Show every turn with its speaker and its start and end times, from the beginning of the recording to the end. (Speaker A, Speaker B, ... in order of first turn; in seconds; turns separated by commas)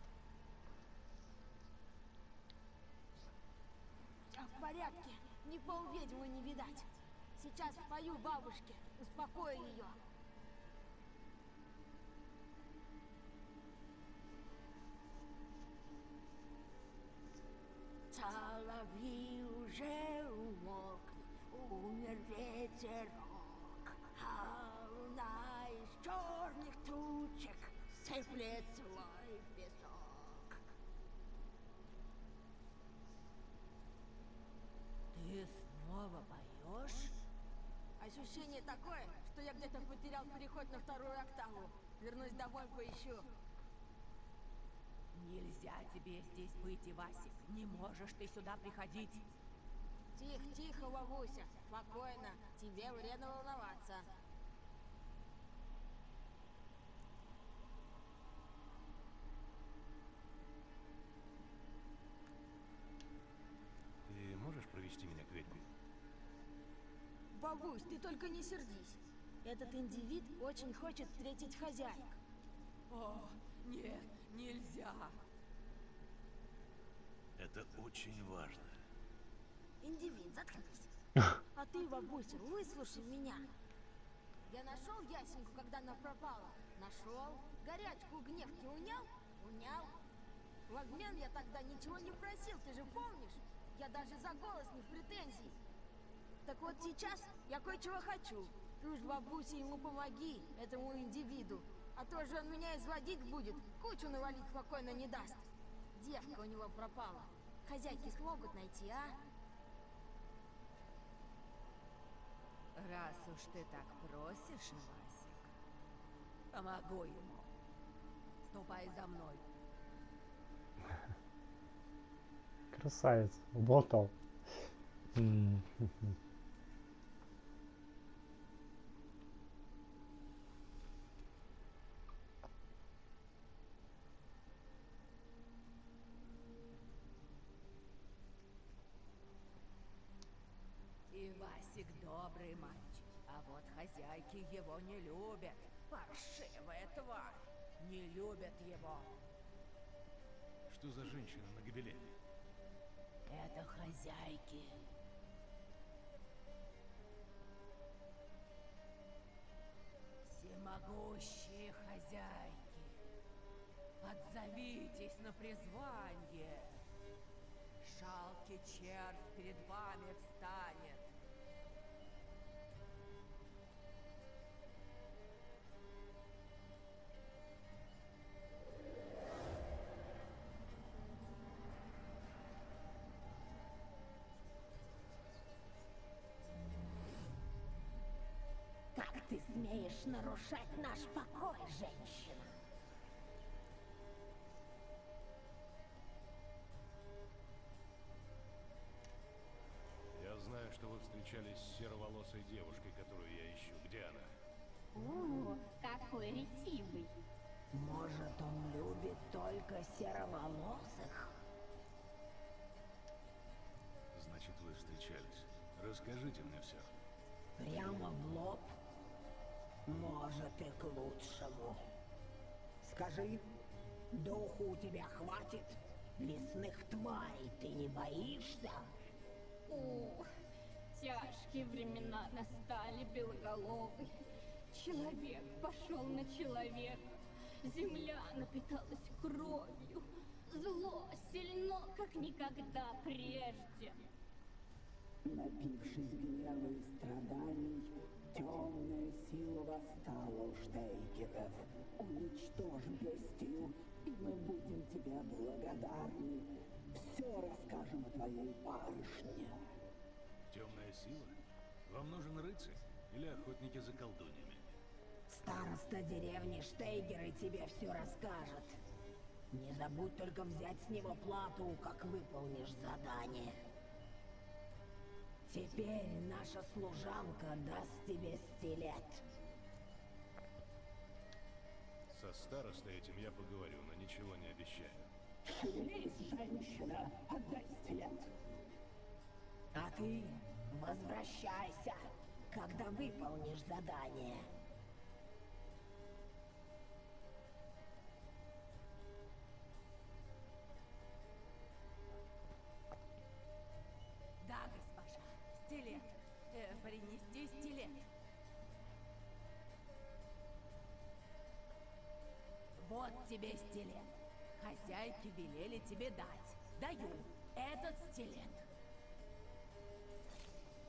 Speaker A: 4.3-10.0, Speaker B: 18.2-24.5, Speaker A: 24.4-27.2, Speaker B: 25.7-25.9, Speaker B: 27.1-28.6, Speaker A: 28.1-30.4, Speaker C: 35.1-37.2, Speaker A: 38.0-43.3, Speaker C: 45.1-49.3, Speaker A: 50.1-54.1, Speaker D: 64.1-65.7, Speaker A: 67.3-72.2, Speaker C: 72.9-75.2, Speaker D: 77.4-78.8, Speaker A: 79.8-80.9, Speaker A: 81.5-83.5, Speaker A: 84.4-90.0, Speaker A: 90.7-95.6, Speaker A: 96.4-109.2, Speaker C: 112.8-115.5, Speaker C: 116.5-117.5, Speaker C: 118.5-119.4, Speaker E: 122.7-124.1, Speaker E: 125.1-126.2, Speaker C: 141.1-149.2, Speaker D: 150.7-152.2, Speaker C: 153.3-154.8, Speaker C: 160.2-163.0, Speaker C: 164.0-166.8, Speaker C: 167.8-171.0, Speaker B: 188.9-192.5, Speaker D: 200.1-204.4, Speaker F: 204.9-207.2, Speaker B: 207.7-211.3, Speaker D: 214.1-216.9, Speaker B: 217.6-218.7, Speaker B: 219.9-221.8, Speaker B: 222.8-223.3, Speaker B: 224.1-228.9, Speaker F: 229.7-230.2, Speaker F: 230.9-234.1, Speaker F: 234.7-237.0, Speaker F: 237.6-244.0, Speaker G: 245.2-259.5, Speaker D: 260.5-264.8, Speaker B: 265.3-268.8, Speaker B: 269.5-273.6, Speaker B: 275.4-279.2, Speaker D: 282.1-285.1, Speaker G: 285.6-288.2, Speaker B: 289.7-292.0, Speaker B: 292.5-294.4, Speaker C: 304.4-308.1, Speaker C: 312.8-318.7